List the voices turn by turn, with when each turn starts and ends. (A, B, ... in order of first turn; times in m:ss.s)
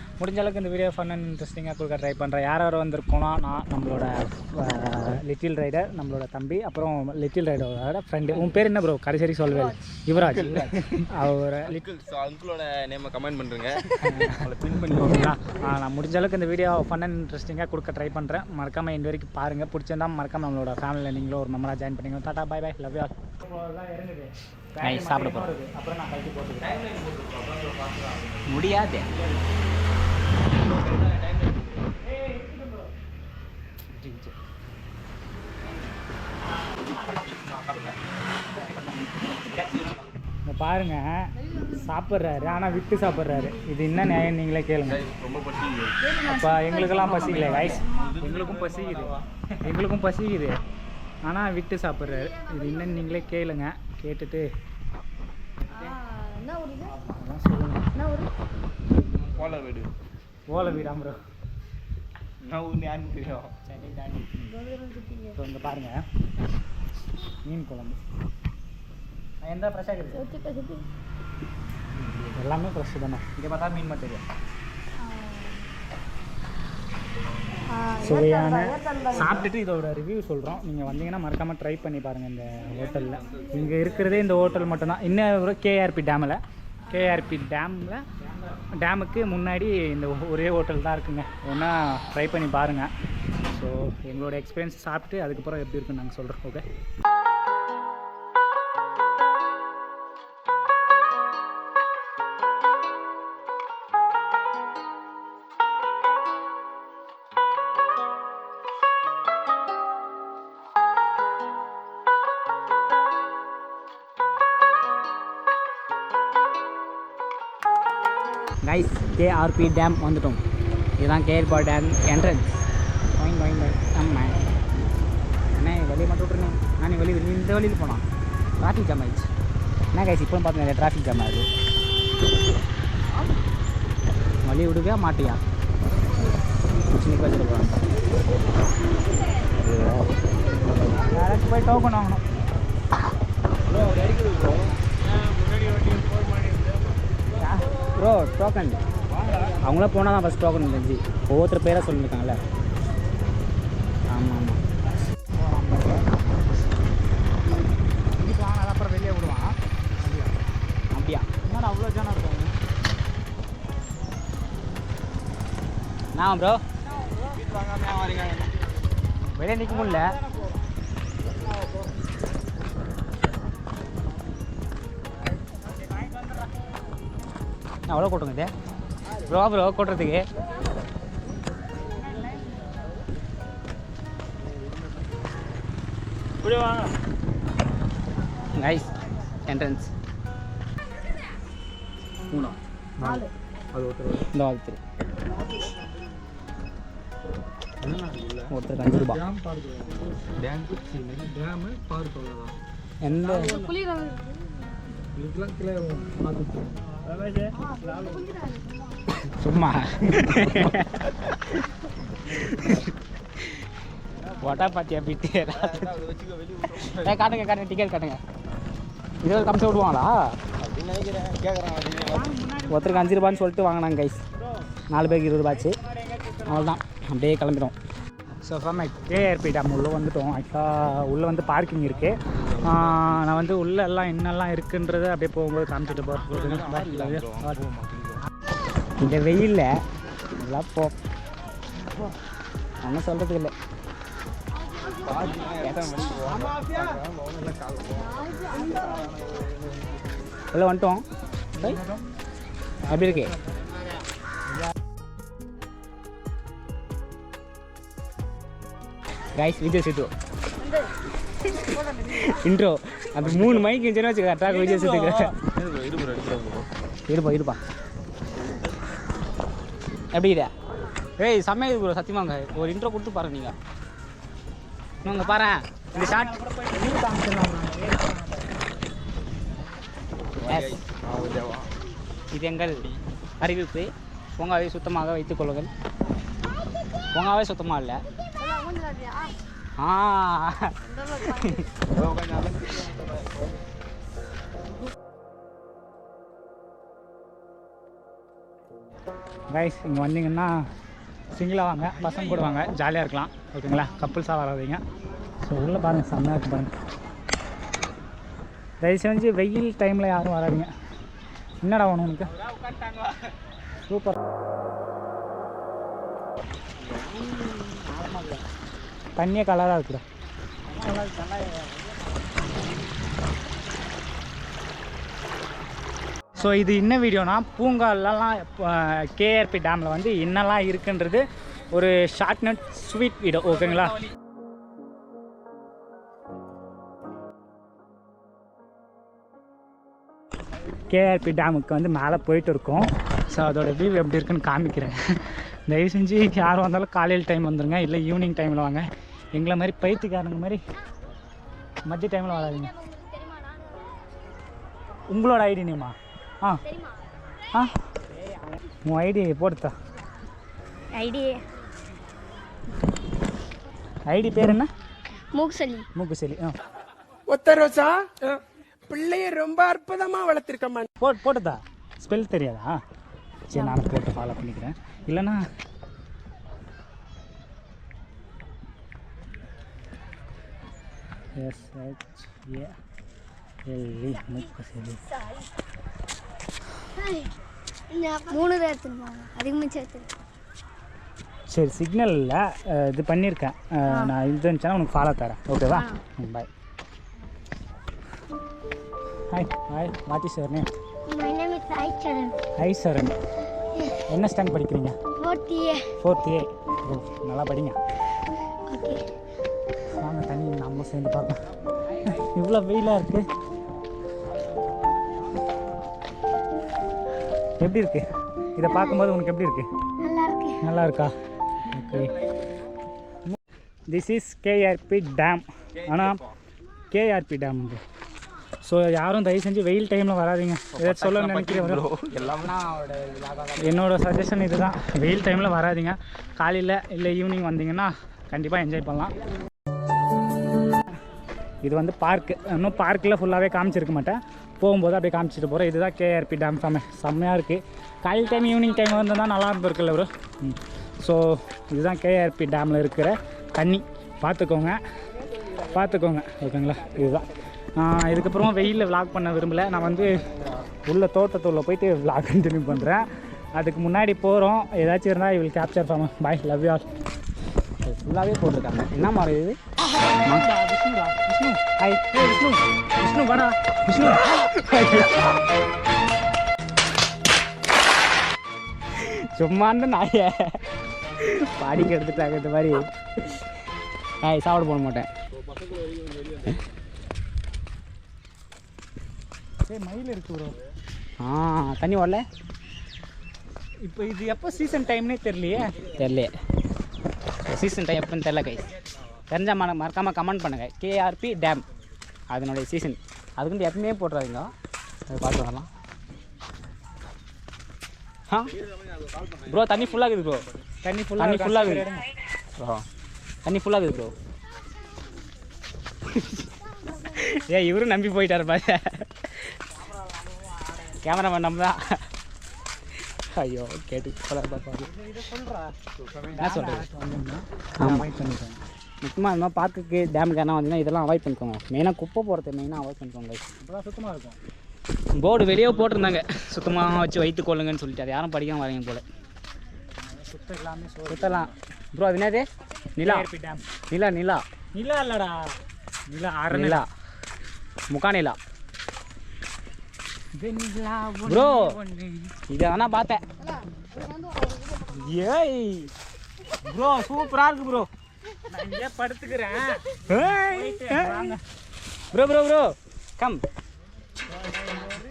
0:00.2-0:11.8 A
0:10.3-0:10.7 B
0:11.6-0:15.3 B
0:14.0-0:26.9 A
0:24.8-0:25.5 C
0:26.9-0:28.4 B
0:28.4-0:29.1 C
0:32.0-0:32.9 A
0:34.0-0:34.3 C
0:40.4-0:45.1 A
0:44.9-0:46.1 B
0:46.1-0:50.6 A
0:47.2-0:49.2 B
0:51.2-0:54.5 A
0:56.4-0:56.9 D
0:57.0-0:57.9 A
0:59.2-0:59.9 B
1:00.5-1:01.2 A
1:02.4-1:03.5 B
1:03.6-1:04.5 C
1:04.8-1:05.2 D
1:05.2-1:06.0 A
1:07.4-1:08.0 A
1:09.4-1:10.2 A
1:10.1-1:10.8 D
1:12.3-1:13.4 A
1:13.4-1:14.2 C
1:18.0-1:28.0 A
1:28.8-1:32.9 A
1:33.5-1:36.6 A
1:58.6-2:00.4 C
2:01.0-2:02.5 C
2:03.2-2:04.4 C
2:05.6-2:08.0 C
2:08.6-2:09.3 C
2:09.9-2:11.5 C
2:14.4-2:15.4 C
2:16.9-2:17.8 C
2:19.6-2:20.1 C
2:21.0-2:22.2 A
2:24.0-2:24.5 B
2:27.4-2:28.8 C
2:29.6-2:32.4 C
2:34.1-2:34.6 C
2:35.3-2:36.1 A
2:38.1-2:40.4 A
2:40.9-2:41.3 C
2:41.4-2:42.6 A
2:46.1-2:46.6 C
2:47.2-2:48.6 B
2:49.3-2:50.1 C
2:49.8-2:50.5 A
2:55.9-2:56.2 A
2:57.9-2:58.5 C
2:59.2-3:00.2 C
3:01.9-3:02.6 A
3:06.4-3:06.9 A
3:08.6-3:08.9 C
3:09.5-3:09.9 C
3:12.3-3:14.2 B
3:14.2-3:14.8 C
3:17.8-3:18.5 B
3:18.5-3:19.2 C
3:19.2-3:19.5 B
3:20.4-3:22.5 B
3:23.0-3:23.7 C
3:23.7-3:24.4 D
3:25.2-3:26.6 B
3:27.7-3:28.6 D
3:29.2-3:31.6 C
3:32.3-3:32.9 C
3:34.4-3:35.9 C
3:35.5-3:37.4 B
3:36.8-3:38.2 C
3:39.2-3:40.1 C
3:40.6-3:42.3 B
3:41.9-3:43.4 A
3:42.7-3:44.2 C
3:44.4-3:44.7 A
3:44.9-3:45.8 C
3:45.4-3:46.8 A
3:46.5-3:47.7 C
3:48.4-3:57.6 A
3:52.4-3:53.2 B
3:56.1-3:58.2 B
3:59.0-3:59.7 C
4:00.4-4:00.9 C
4:02.8-4:03.5 C
4:04.8-4:09.9 B
4:05.6-4:06.6 C
4:10.5-4:11.0 C
4:12.9-4:13.4 C
4:19.3-4:20.1 C
4:21.4-4:25.4 C
4:23.2-4:23.7 B
4:24.6-4:24.9 A
4:25.4-4:26.7 B
4:27.1-4:27.6 C
4:30.1-4:30.5 C
4:31.2-4:33.5 C
4:35.0-4:36.3 C
4:35.0-4:38.6 A
4:40.4-4:41.7 B
4:40.5-4:40.8 C
4:42.3-4:42.9 C
4:42.6-4:43.0 B
4:43.4-4:45.7 C
4:47.1-4:48.0 C
4:48.4-4:49.3 D
4:49.8-4:51.6 C
4:51.8-4:53.4 B
4:59.5-5:00.6 A
5:01.3-5:04.8 A
5:05.4-5:06.7 A
5:08.8-5:10.7 A
5:11.6-5:12.3 A
5:12.4-5:13.1 C
5:13.9-5:14.2 A
5:16.8-5:18.4 C
5:19.2-5:20.0 A
5:20.7-5:21.9 C
5:26.4-5:34.0 A
5:40.9-5:50.6 A
5:51.9-5:52.7 A
5:52.4-5:54.0 D
5:55.1-5:56.6 A
5:56.6-5:57.1 D
5:58.8-5:59.7 A
6:00.9-6:01.4 D
6:04.1-6:04.7 A
6:05.3-6:05.9 D
6:05.9-6:06.5 A
6:07.3-6:10.9 E
6:11.0-6:12.8 A
6:13.5-6:15.4 A
6:13.6-6:13.8 D
6:21.4-6:22.7 A
6:23.7-6:25.0 A
6:26.9-6:27.3 D
6:27.9-6:30.1 D
6:31.5-6:36.5 A
6:33.9-6:34.1 D
6:35.7-6:36.0 D
6:39.3-6:40.7 A
6:41.1-6:42.4 D
6:42.6-6:43.1 A
6:44.1-6:45.0 A
6:45.2-6:45.9 D
6:46.0-6:47.8 A
6:48.7-6:49.1 D
6:50.0-6:51.4 A
6:52.0-6:53.2 A
6:57.6-6:59.7 A
6:58.6-6:59.0 D
7:00.0-7:00.6 D
7:00.6-7:01.1 A
7:01.6-7:02.1 A
7:03.9-7:06.2 A
7:05.8-7:06.1 B
7:06.9-7:07.8 A
7:08.6-7:11.8 A
7:10.7-7:12.5 B
7:12.1-7:13.9 C
7:13.6-7:19.1 A
7:21.6-7:34.8 A
7:35.6-7:40.2 A
7:40.8-7:46.9 A
7:47.8-7:49.6 C
7:50.0-7:51.6 A
7:51.8-7:52.6 C
7:53.0-7:53.5 A
7:53.9-7:55.3 C
7:58.9-8:00.6 C
8:01.2-8:03.4 C
8:04.2-8:05.1 C
8:05.8-8:06.4 B
8:09.6-8:10.6 A
8:11.2-8:12.2 C
8:13.8-8:15.7 A
8:16.0-8:16.3 C
8:17.5-8:18.7 C
8:19.3-8:21.6 C
8:22.3-8:24.5 C
8:25.1-8:25.7 C
8:28.3-8:28.5 C
8:29.0-8:29.4 B
8:29.4-8:30.5 C
8:30.8-8:32.0 A
8:31.1-8:31.9 C
8:32.6-8:32.8 C
8:33.4-8:34.1 C
8:36.1-8:39.6 C
8:40.7-8:42.0 C
8:43.4-8:44.9 C
8:45.0-8:45.7 A
8:46.3-8:48.6 A
8:46.4-8:46.8 C
8:47.8-8:48.1 C
8:49.0-8:53.4 C
8:53.6-8:54.4 A
8:55.2-8:59.0 C
9:00.1-9:01.5 A
9:01.1-9:03.3 C
9:03.0-9:03.6 A
9:03.9-9:04.4 C
9:04.7-9:05.5 A
9:06.1-9:06.8 A
9:06.5-9:06.9 C
9:07.9-9:08.4 C
9:10.3-9:12.4 A
9:11.2-9:11.7 C
9:12.5-9:13.2 C
9:14.0-9:14.8 D
9:14.9-9:15.9 C
9:16.6-9:17.9 C
9:18.5-9:21.4 A
9:20.1-9:21.3 C
9:22.1-9:23.4 C
9:24.4-9:25.0 A